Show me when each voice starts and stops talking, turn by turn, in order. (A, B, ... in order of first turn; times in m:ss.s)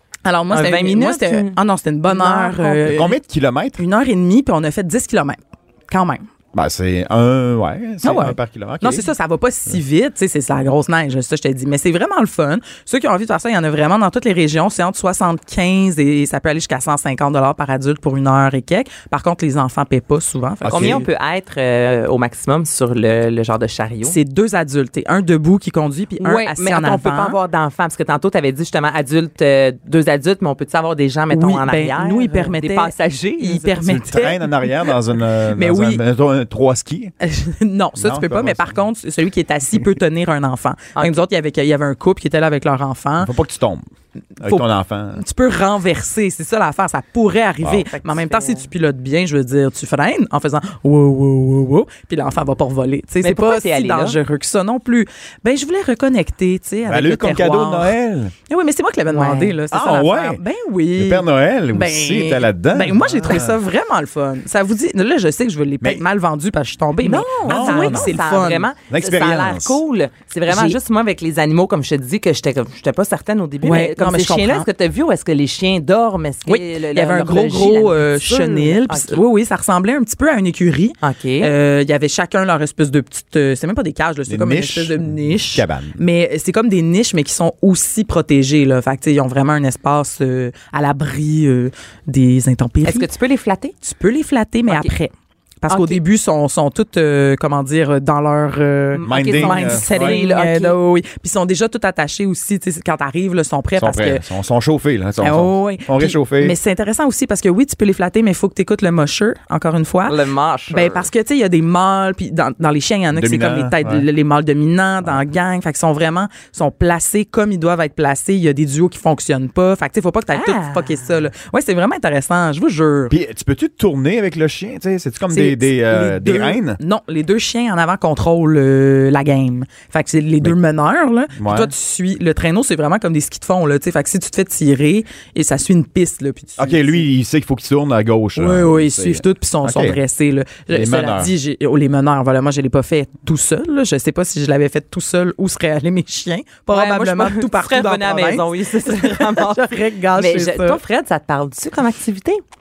0:00.2-0:03.2 A
0:00.5-0:03.0 B
0:02.9-0:03.8 C
0:03.8-0:05.4 A
0:05.9-0:06.2 A
0:06.5-0:09.1 C
0:08.0-0:21.0 A
0:20.6-0:21.0 C
0:20.7-0:24.2 B
0:24.0-0:27.4 A
0:26.2-0:34.0 B
0:31.3-0:34.9 A
0:33.8-0:37.1 C
0:35.5-0:36.0 A
0:37.2-0:43.3 A
0:38.0-0:38.7 C
0:43.2-0:43.9 C
0:44.4-0:57.9 A
0:44.4-0:45.2 C
0:47.7-0:48.7 B
0:53.2-0:54.2 B
0:56.8-0:58.3 C
0:58.5-1:08.7 A
0:59.1-0:59.6 B
0:59.7-1:00.4 C
1:00.9-1:03.6 C
1:07.0-1:19.2 B
1:07.4-1:08.2 C
1:08.9-1:09.8 C
1:10.5-1:10.8 A
1:13.6-1:14.7 A
1:16.5-1:33.1 A
1:21.0-1:21.5 B
1:24.3-1:26.0 C
1:32.8-1:33.7 B
1:33.8-1:44.2 A
1:35.7-1:36.0 B
1:38.9-1:40.8 B
1:39.1-1:40.2 C
1:43.8-1:46.6 C
1:45.2-1:50.2 A
1:50.1-1:51.1 B
1:50.7-2:03.1 A
1:53.1-1:54.0 C
2:00.3-2:01.0 B
2:03.1-2:06.8 C
2:05.3-2:17.0 A
2:11.4-2:11.7 C
2:16.6-2:20.0 C
2:18.4-2:30.8 A
2:20.7-2:21.3 C
2:26.7-2:32.4 B